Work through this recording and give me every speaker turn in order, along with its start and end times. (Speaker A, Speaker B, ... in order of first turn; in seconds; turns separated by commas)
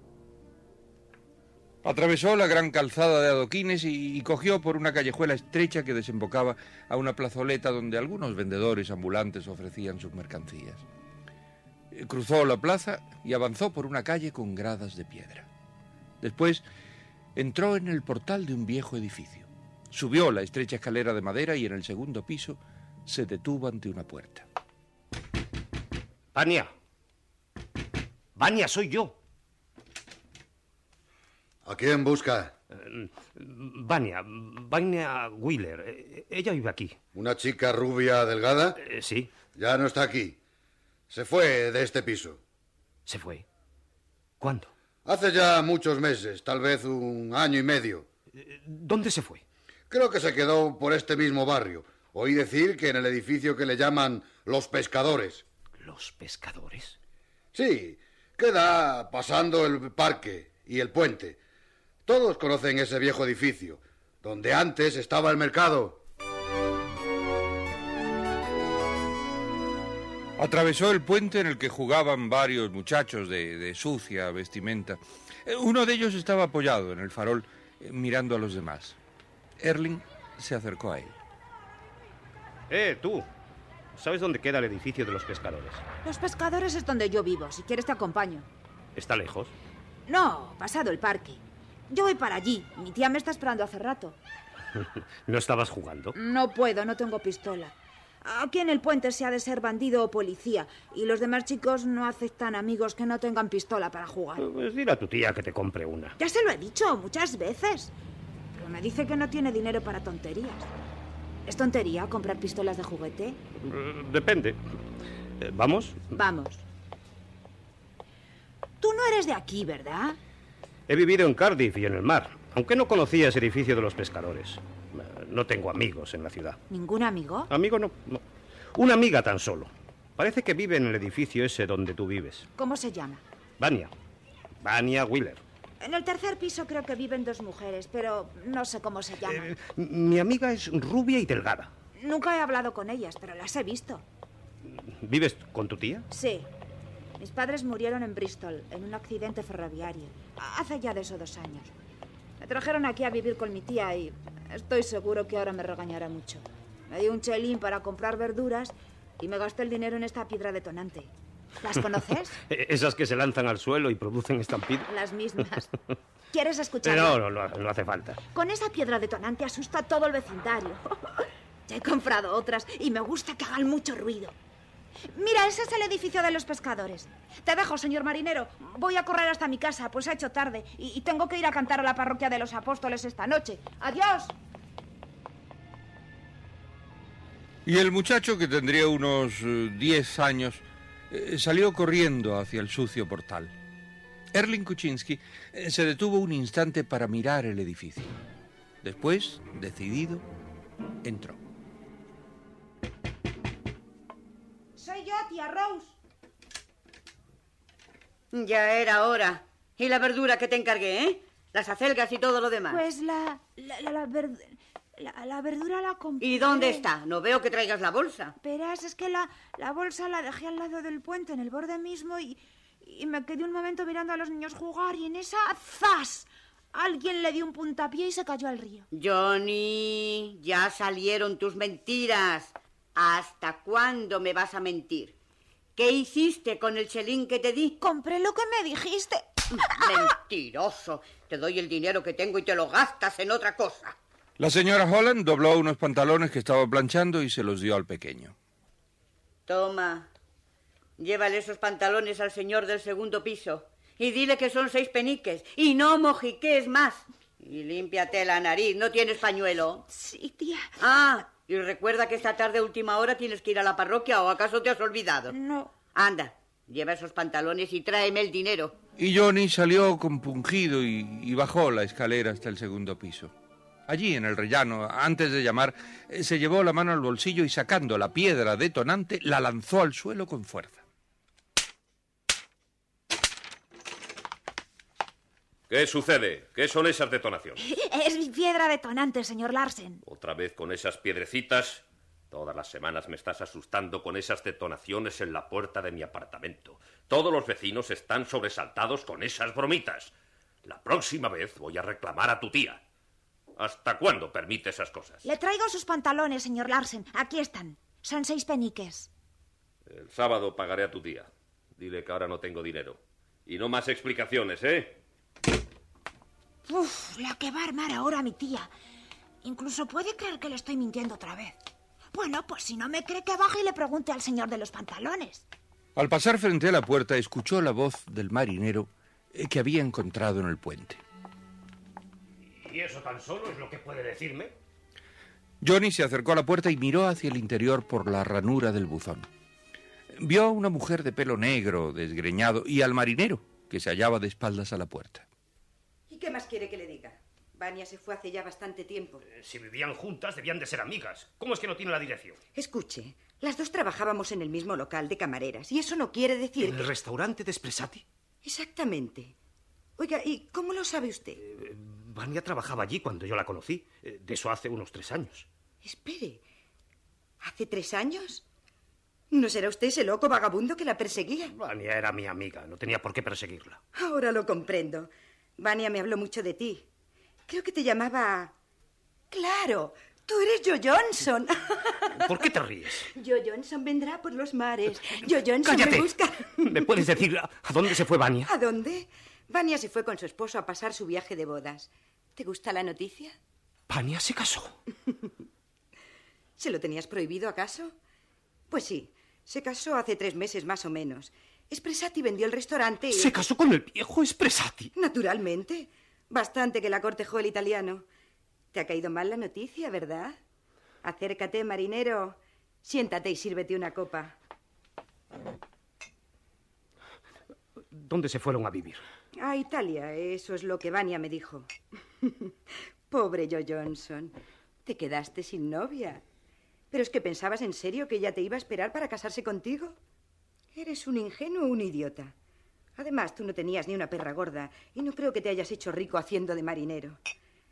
Speaker A: 1.8-10.8, Speaker A: 11.9-15.5, Speaker A: 16.2-16.6, Speaker A: 17.4-24.4, Speaker B: 26.3-26.7, Speaker B: 28.4-29.1, Speaker C: 31.6-32.5, Speaker B: 32.7-37.0, Speaker C: 37.1-38.8, Speaker B: 38.8-39.3, Speaker C: 39.5-40.4, Speaker C: 41.1-42.4, Speaker B: 43.1-43.4, Speaker B: 44.4-44.7, Speaker C: 45.0-48.0, Speaker B: 48.4-49.4, Speaker C: 49.9-55.4, Speaker B: 55.8-57.0, Speaker C: 57.5-61.4, Speaker C: 62.1-66.0, Speaker A: 70.4-79.0, Speaker A: 79.6-81.2, Speaker B: 82.7-83.2, Speaker B: 84.0-85.8, Speaker D: 86.0-88.5, Speaker B: 89.0-89.5, Speaker D: 90.1-94.2, Speaker B: 94.8-96.1, Speaker D: 96.1-104.4, Speaker B: 104.4-106.1, Speaker D: 106.2-107.9, Speaker D: 108.5-110.7, Speaker D: 111.5-113.4, Speaker B: 113.6-114.6, Speaker B: 115.4-116.0, Speaker D: 116.1-116.6, Speaker D: 118.8-120.2, Speaker B: 120.9-126.6, Speaker D: 126.7-127.5, Speaker B: 127.5-128.2, Speaker B: 128.7-132.4, Speaker D: 132.6-133.2, Speaker B: 133.6-133.9, Speaker B: 134.6-135.4, Speaker D: 135.8-139.5, Speaker B: 139.3-141.7, Speaker D: 141.9-144.0, Speaker B: 144.7-146.0, Speaker D: 146.1-146.5, Speaker D: 147.2-151.7, Speaker D: 152.4-162.4, Speaker B: 162.5-164.9, Speaker D: 164.8-165.7, Speaker D: 166.3-167.2, Speaker B: 166.8-168.2, Speaker D: 168.3-174.3, Speaker D: 175.1-184.3, Speaker A: 187.7-193.5, Speaker A: 194.3-198.1, Speaker A: 198.8-200.2, Speaker A: 201.0-201.4, Speaker D: 204.8-206.0, Speaker E: 208.3-212.8, Speaker D: 212.7-216.9, Speaker E: 216.2-218.3, Speaker D: 218.4-228.9, Speaker E: 228.9-235.2, Speaker E: 235.8-237.7, Speaker D: 237.8-239.9, Speaker E: 239.6-243.9, Speaker A: 244.4-248.3, Speaker E: 249.5-250.1, Speaker E: 251.0-259.8, Speaker D: 259.9-260.8, Speaker E: 260.8-265.3, Speaker D: 265.3-265.7, Speaker E: 265.9-268.8, Speaker A: 269.0-273.3, Speaker A: 273.9-280.8, Speaker F: 285.7-287.6, Speaker D: 287.6-290.0, Speaker F: 290.1-300.1, Speaker F: 300.7-302.8, Speaker F: 303.6-305.2, Speaker D: 305.2-309.1, Speaker F: 309.9-314.9, Speaker D: 316.6-318.7, Speaker D: 319.4-321.6, Speaker D: 322.1-325.5, Speaker A: 325.9-331.0, Speaker B: 332.5-334.5, Speaker A: 335.6-339.3, Speaker A: 340.1-345.2, Speaker G: 346.1-349.2, Speaker B: 349.3-352.4, Speaker G: 352.5-356.9, Speaker B: 356.6-358.0, Speaker G: 358.4-359.3, Speaker G: 360.0-361.4, Speaker B: 361.4-365.5, Speaker G: 365.8-366.4, Speaker G: 367.4-368.4, Speaker G: 369.3-371.5, Speaker B: 371.5-373.8, Speaker G: 373.9-376.9, Speaker G: 377.5-378.5, Speaker G: 379.3-382.4, Speaker B: 382.1-383.1, Speaker G: 383.1-387.1, Speaker B: 385.6-386.1, Speaker B: 386.6-388.5, Speaker G: 388.4-393.4, Speaker B: 393.9-394.7, Speaker G: 396.6-397.9, Speaker G: 398.7-403.4, Speaker B: 403.1-404.9, Speaker G: 404.9-408.0, Speaker G: 408.7-410.4, Speaker G: 411.0-414.3, Speaker B: 417.9-419.0, Speaker G: 419.4-421.7, Speaker G: 422.2-422.5, Speaker G: 423.1-424.3, Speaker G: 424.9-426.2, Speaker G: 426.9-429.9, Speaker G: 430.7-432.3, Speaker G: 433.0-437.2